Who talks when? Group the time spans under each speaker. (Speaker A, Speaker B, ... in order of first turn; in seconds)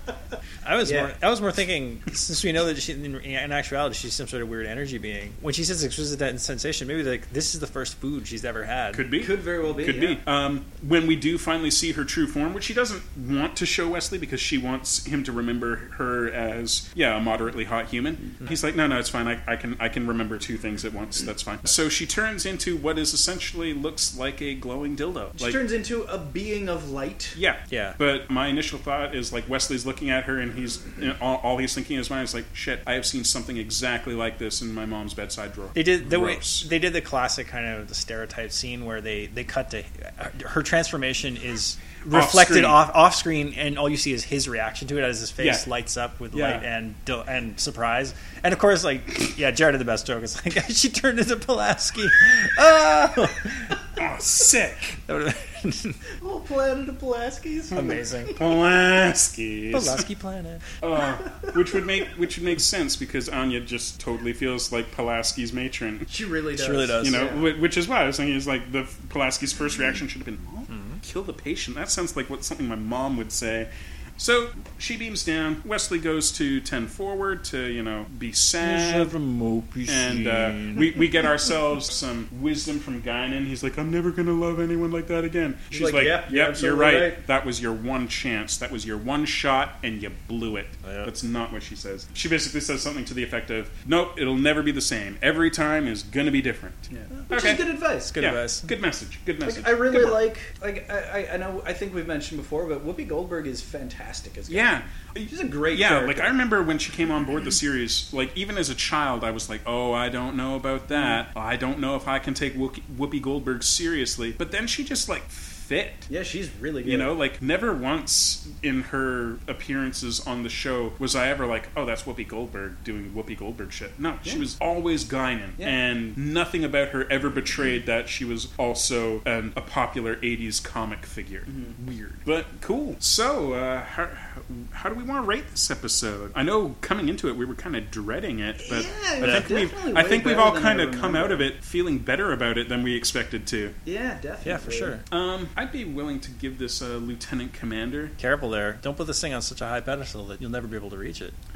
Speaker A: 0.6-9.1, 27.7-28.0, 35.8-53.8, 55.1-56.0, 57.8-58.3, 59.7-60.6, 66.6-67.3, 70.7-71.0, 78.6-81.1, 90.8-91.1, 98.1-98.7, 139.2-139.5, 144.4-145.0, 148.2-151.3
Speaker B: 0.8-1.1, 9.2-10.2, 25.4-27.4, 56.2-58.5, 66.1-67.5, 85.7-87.2, 96.9-98.2, 99.4-106.4, 110.9-111.2, 116.1-117.1, 131.5-131.8, 138.6-141.5, 143.8-145.0
Speaker C: 8.9-25.6, 27.4-36.7, 42.1-42.8, 45.4-45.6, 46.3-46.6, 53.9-55.0, 57.8-60.1, 60.8-66.1, 67.0-79.1, 79.9-100.2, 104.5-116.1, 116.8-143.8, 145.1-148.2